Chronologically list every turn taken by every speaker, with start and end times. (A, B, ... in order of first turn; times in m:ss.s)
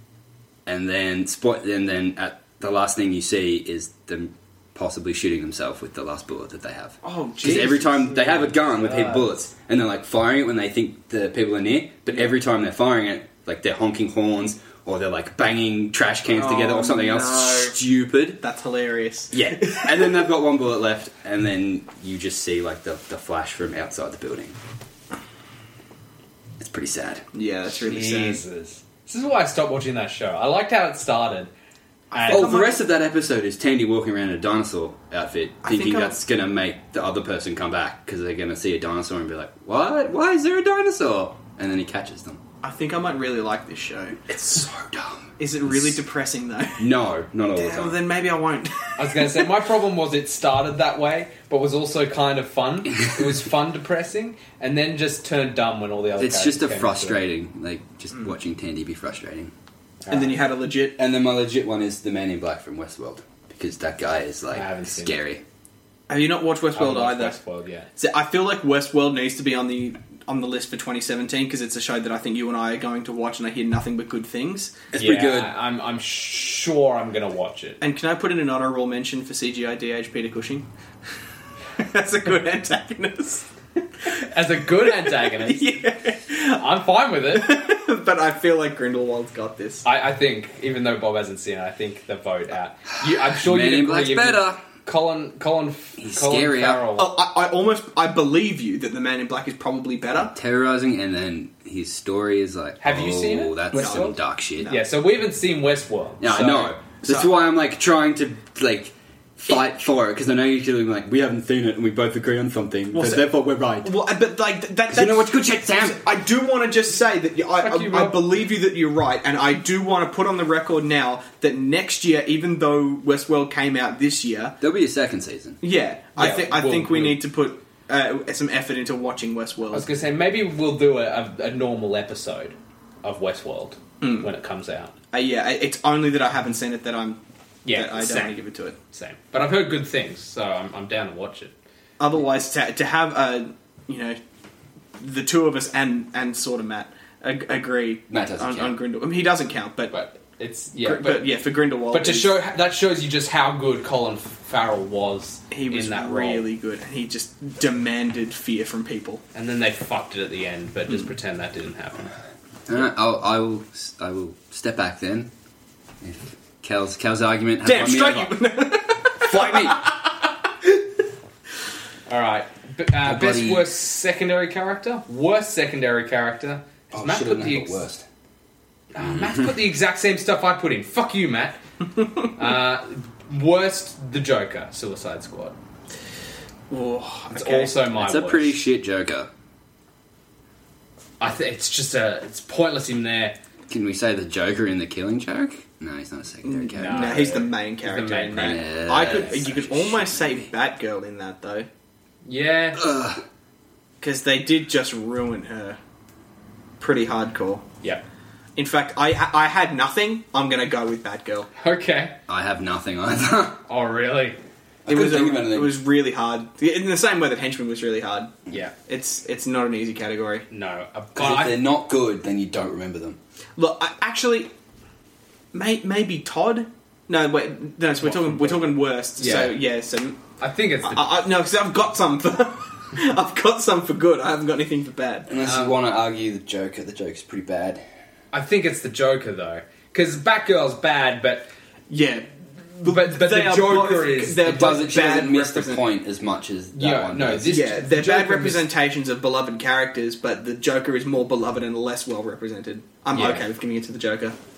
0:00.6-0:18.4 A
0:07.0-0:08.6 B
0:08.8-0:09.2 C
0:16.3-0:17.8 B
0:18.4-0:20.2 B
0:19.3-0:24.6 A
0:26.6-0:27.2 A
0:27.3-0:28.4 B
0:27.8-0:31.5 C
0:32.1-0:32.8 B
0:32.1-0:32.6 C
0:32.3-0:42.4 A
0:35.6-0:36.2 B
0:42.6-0:44.7 B
0:44.4-0:46.0 A
0:45.4-0:46.9 B
0:46.8-0:48.0 A
0:47.5-0:49.5 B
0:49.0-0:57.2 C
0:56.2-0:59.5 A
1:00.0-1:00.4 C
1:00.1-1:01.0 B
1:01.0-1:05.4 A
1:04.5-1:05.2 C
1:06.1-1:07.4 B
1:06.7-1:07.9 C
1:08.0-1:14.8 B
1:14.9-1:15.5 A
1:15.0-1:17.8 C
1:17.8-1:20.6 B
1:21.8-1:23.4 B
1:24.1-1:26.6 B
1:24.1-1:25.8 C
1:26.5-1:27.6 C
1:27.3-1:29.8 B
1:29.8-1:37.1 C
1:33.0-1:34.6 A
1:36.0-1:36.8 A
1:37.0-1:40.3 B
1:40.1-1:44.7 A
1:42.8-1:46.7 C
1:43.7-1:44.8 B
1:46.2-1:53.9 A
1:47.0-1:47.3 B
1:52.9-2:04.6 B
1:54.9-1:56.0 A
1:57.6-1:58.2 C
2:04.6-2:05.6 A
2:05.6-2:09.8 B
2:06.2-2:07.2 C
2:09.7-2:14.9 C
2:14.0-2:14.3 B
2:15.1-2:18.8 B
2:17.6-2:18.4 C
2:18.9-2:21.5 C
2:22.0-2:24.2 B
2:25.0-2:29.9 B
2:28.1-2:28.8 A
2:29.9-2:31.3 C
2:30.8-2:32.3 B
2:31.9-2:36.5 C
2:35.5-2:39.2 B
2:39.3-2:42.1 C
2:42.7-2:45.3 A
2:46.0-2:48.4 A
2:47.6-2:50.8 B
2:49.2-2:49.8 A
2:52.1-2:57.8 C
2:53.0-2:53.6 A
2:56.9-2:58.0 A
2:58.9-3:01.6 C
2:59.0-2:59.6 A
3:02.3-3:05.5 C
3:06.7-3:07.7 B
3:07.3-3:08.6 C
3:07.9-3:09.3 A
3:11.2-3:13.4 C
3:13.7-3:17.4 A
3:16.4-3:21.7 B
3:16.8-3:18.6 C
3:18.4-3:20.5 A
3:22.2-3:22.8 C
3:22.7-3:23.2 A
3:24.0-3:25.8 B
3:26.8-3:27.6 B
3:28.6-3:31.5 B
3:31.6-3:32.2 C
3:32.3-3:33.6 A
3:33.7-3:34.4 C
3:34.8-3:35.8 A
3:34.9-3:38.3 B
3:38.9-3:40.4 B
3:40.5-3:41.6 C
3:41.2-3:43.2 A
3:43.6-3:44.5 B
3:45.5-3:50.2 B
3:49.2-3:49.6 C
3:50.4-3:51.0 C
3:50.8-3:55.3 B
3:55.3-3:57.8 A
3:55.4-3:55.8 C
3:58.3-4:01.5 C
4:01.9-4:05.8 B
4:02.8-4:04.8 C
4:04.4-4:07.5 A
4:06.7-4:08.7 C
4:07.5-4:14.4 B
4:13.1-4:13.4 C